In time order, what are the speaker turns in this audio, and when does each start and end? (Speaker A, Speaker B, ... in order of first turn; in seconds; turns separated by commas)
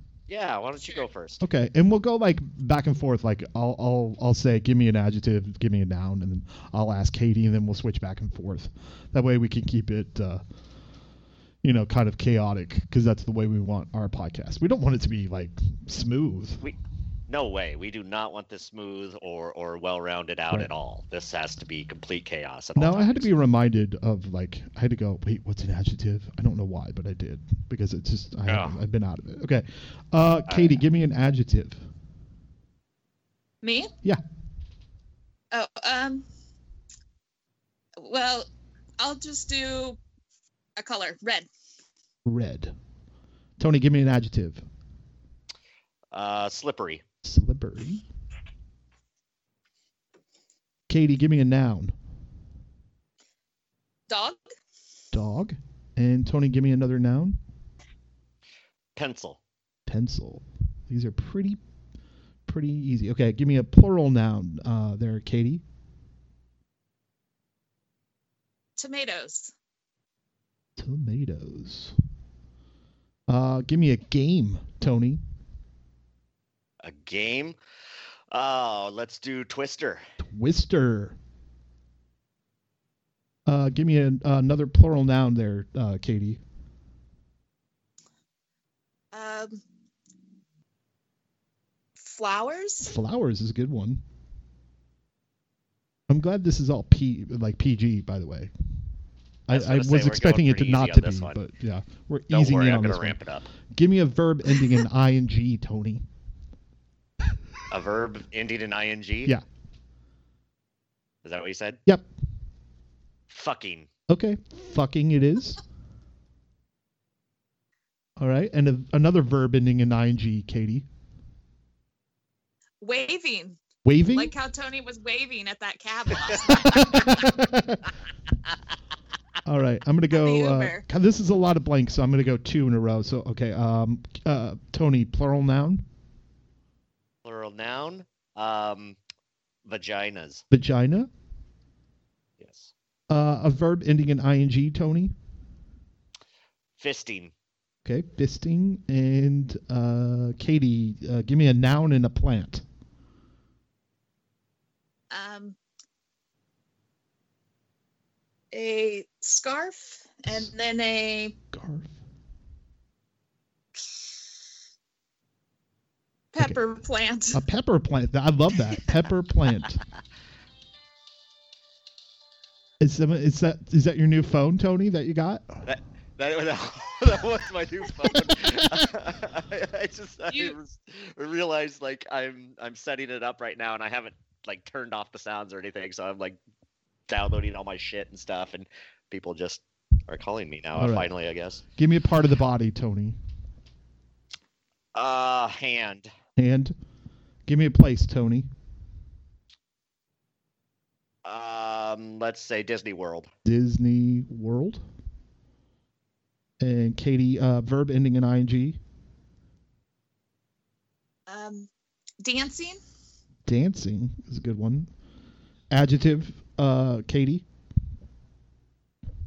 Speaker A: 0.3-1.5, Speaker B: 1.4-10.4, Speaker B: 11.6-16.6, Speaker A: 17.3-23.3, Speaker B: 22.8-31.8, Speaker A: 28.5-28.8, Speaker A: 30.5-30.7, Speaker C: 33.6-33.9, Speaker C: 35.5-36.3, Speaker C: 38.0-40.0, Speaker C: 40.8-41.5, Speaker B: 42.2-42.7, Speaker B: 43.6-44.6, Speaker A: 46.1-47.0, Speaker B: 47.2-48.0, Speaker B: 50.9-51.9, Speaker C: 54.1-54.4, Speaker B: 55.1-57.4, Speaker A: 59.0-59.4, Speaker B: 59.9-61.6, Speaker B: 62.5-65.6, Speaker C: 68.8-69.5, Speaker B: 70.8-72.0, Speaker B: 73.3-75.2, Speaker A: 76.8-77.6, Speaker A: 78.3-80.0, Speaker B: 80.2-81.2, Speaker B: 83.5-86.4, Speaker C: 89.1-89.6, Speaker C: 92.0-92.9, Speaker B: 92.8-94.0, Speaker B: 96.1-98.5, Speaker B: 99.5-103.2, Speaker A: 99.5-101.4, Speaker A: 102.3-103.5, Speaker B: 103.7-106.0, Speaker A: 107.7-109.3, Speaker A: 111.2-111.8, Speaker A: 113.3-113.9, Speaker B: 114.1-115.6, Speaker B: 118.2-120.9, Speaker C: 122.8-123.6, Speaker B: 123.8-124.3, Speaker C: 124.1-127.0, Speaker B: 126.5-127.9, Speaker B: 129.4-135.8, Speaker C: 130.1-130.8, Speaker A: 137.2-139.0, Speaker A: 139.7-140.4, Speaker B: 140.5-141.1, Speaker A: 142.4-142.7, Speaker B: 143.1-145.1, Speaker A: 146.8-147.3, Speaker B: 147.8-152.6, Speaker C: 155.1-155.6, Speaker C: 158.5-161.3, Speaker B: 161.5-161.9, Speaker C: 166.3-167.4, Speaker B: 167.3-169.8, Speaker B: 172.8-175.7, Speaker A: 175.7-186.4, Speaker B: 178.1-178.8, Speaker C: 180.3-180.6, Speaker A: 187.1-191.6, Speaker B: 190.7-191.1, Speaker B: 191.8-193.2, Speaker A: 194.9-196.1, Speaker B: 196.4-196.8, Speaker B: 197.5-198.5, Speaker A: 201.2-203.3, Speaker B: 203.4-204.8, Speaker B: 206.6-208.8, Speaker C: 211.3-211.7, Speaker C: 212.2-212.8, Speaker B: 213.5-214.9, Speaker B: 215.7-217.4